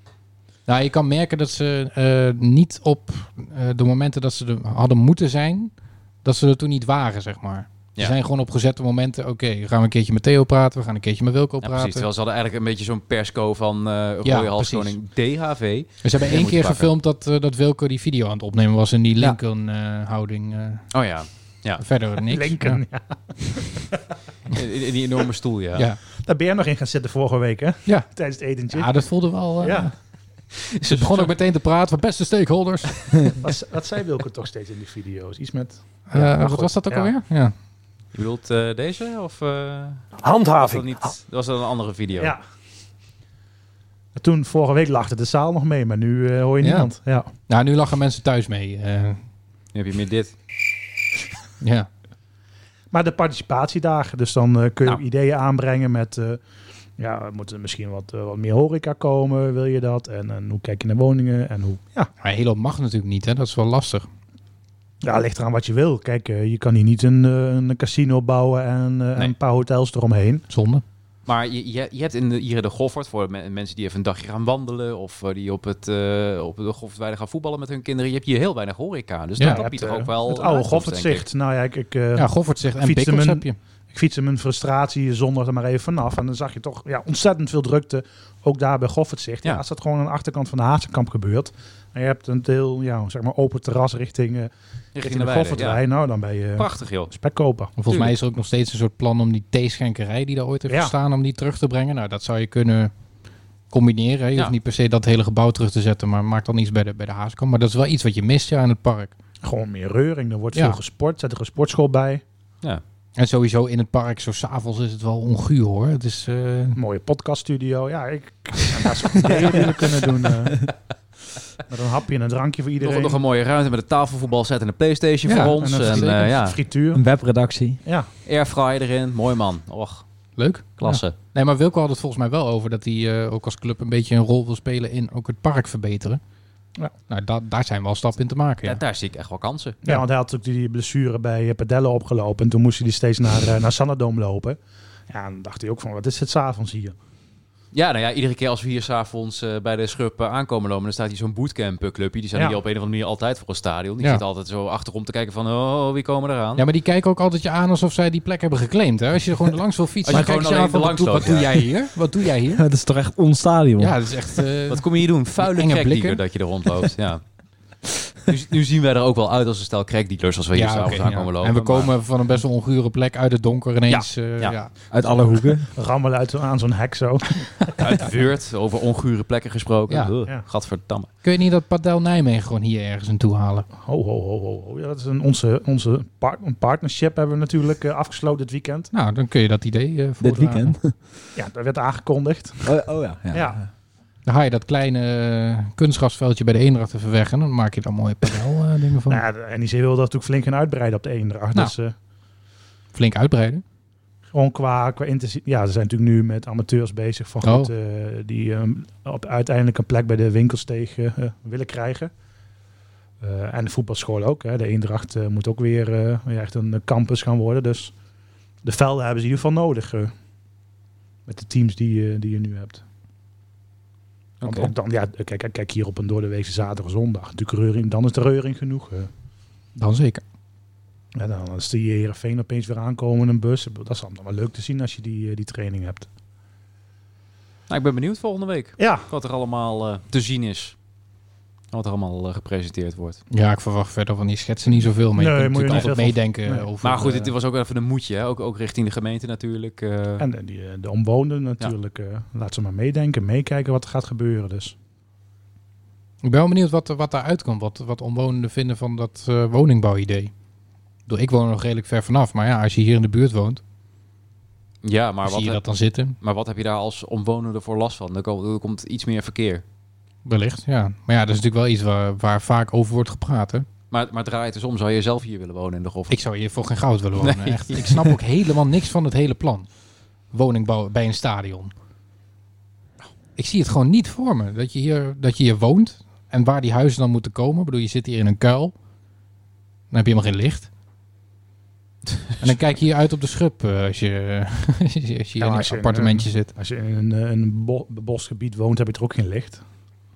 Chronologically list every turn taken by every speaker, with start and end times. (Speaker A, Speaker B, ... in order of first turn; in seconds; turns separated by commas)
Speaker A: 0.7-5.7, Speaker A: 6.2-12.1, Speaker B: 11.6-16.9, Speaker A: 14.2-15.0, Speaker A: 16.0-20.9, Speaker B: 20.9-21.8, Speaker A: 21.8-22.8, Speaker C: 22.3-23.8, Speaker B: 24.5-25.9, Speaker C: 26.2-29.1, Speaker A: 27.9-28.1, Speaker A: 28.7-30.0, Speaker C: 29.6-29.9, Speaker B: 30.5-31.3, Speaker A: 30.8-33.4, Speaker C: 33.4-37.1, Speaker A: 36.1-37.5, Speaker B: 38.1-42.3, Speaker C: 40.2-41.1, Speaker C: 42.1-42.4, Speaker C: 44.1-47.3, Speaker A: 46.6-49.2, Speaker B: 49.7-50.3, Speaker A: 51.6-51.9, Speaker C: 52.9-56.4, Speaker C: 57.0-62.1, Speaker A: 62.2-64.1, Speaker C: 65.0-70.4, Speaker A: 70.5-70.8, Speaker B: 71.2-81.2, Speaker A: 79.4-79.6, Speaker C: 79.4-97.7, Speaker A: 82.2-83.6, Speaker B: 94.9-95.8, Speaker B: 96.5-97.1, Speaker A: 97.8-102.9, Speaker B: 97.9-98.1, Speaker A: 103.7-109.1, Speaker C: 109.4-112.2, Speaker A: 113.2-116.8, Speaker C: 116.7-120.7, Speaker D: 119.3-119.6, Speaker C: 121.7-123.2, Speaker B: 122.8-126.6, Speaker A: 125.2-126.3, Speaker C: 125.4-127.0, Speaker D: 126.9-127.8, Speaker B: 128.2-130.0, Speaker A: 130.3-136.2, Speaker B: 130.8-131.1, Speaker A: 137.1-138.8, Speaker B: 138.6-139.8, Speaker C: 139.8-144.6, Speaker C: 145.1-146.9, Speaker B: 147.7-156.6, Speaker A: 156.6-162.6, Speaker B: 160.0-161.7, Speaker D: 162.5-164.0, Speaker A: 163.8-166.2, Speaker B: 164.7-167.2, Speaker B: 168.3-171.9, Speaker A: 170.5-175.3, Speaker B: 173.9-174.6, Speaker D: 174.9-175.7, Speaker C: 175.7-177.8, Speaker B: 177.8-181.1, Speaker A: 179.9-180.1, Speaker A: 181.2-183.7, Speaker C: 183.8-188.9, Speaker A: 188.9-190.7, Speaker D: 190.2-191.1, Speaker C: 191.3-192.8, Speaker D: 192.6-193.7, Speaker C: 193.3-193.6, Speaker A: 194.2-199.2, Speaker C: 199.1-201.9, Speaker A: 202.9-203.6, Speaker C: 204.3-212.1, Speaker A: 207.4-207.7, Speaker C: 213.2-217.9, Speaker C: 218.6-220.1, Speaker C: 221.2-222.8, Speaker B: 224.4-224.7, Speaker C: 224.4-229.1, Speaker A: 229.8-230.2, Speaker C: 231.1-236.1, Speaker B: 237.7-240.7, Speaker C: 238.8-239.1, Speaker B: 241.7-243.2, Speaker A: 243.3-247.3, Speaker C: 245.2-246.7, Speaker B: 246.8-250.2, Speaker C: 250.2-254.7, Speaker A: 256.2-260.3, Speaker A: 261.1-263.6, Speaker B: 264.8-265.6, Speaker A: 265.2-266.1, Speaker B: 266.2-269.6, Speaker A: 270.2-273.7, Speaker B: 273.9-276.2, Speaker A: 276.1-279.7, Speaker B: 277.2-278.2, Speaker A: 280.3-281.7, Speaker A: 283.4-288.7, Speaker A: 289.9-290.7, Speaker A: 292.4-296.5, Speaker C: 295.4-299.6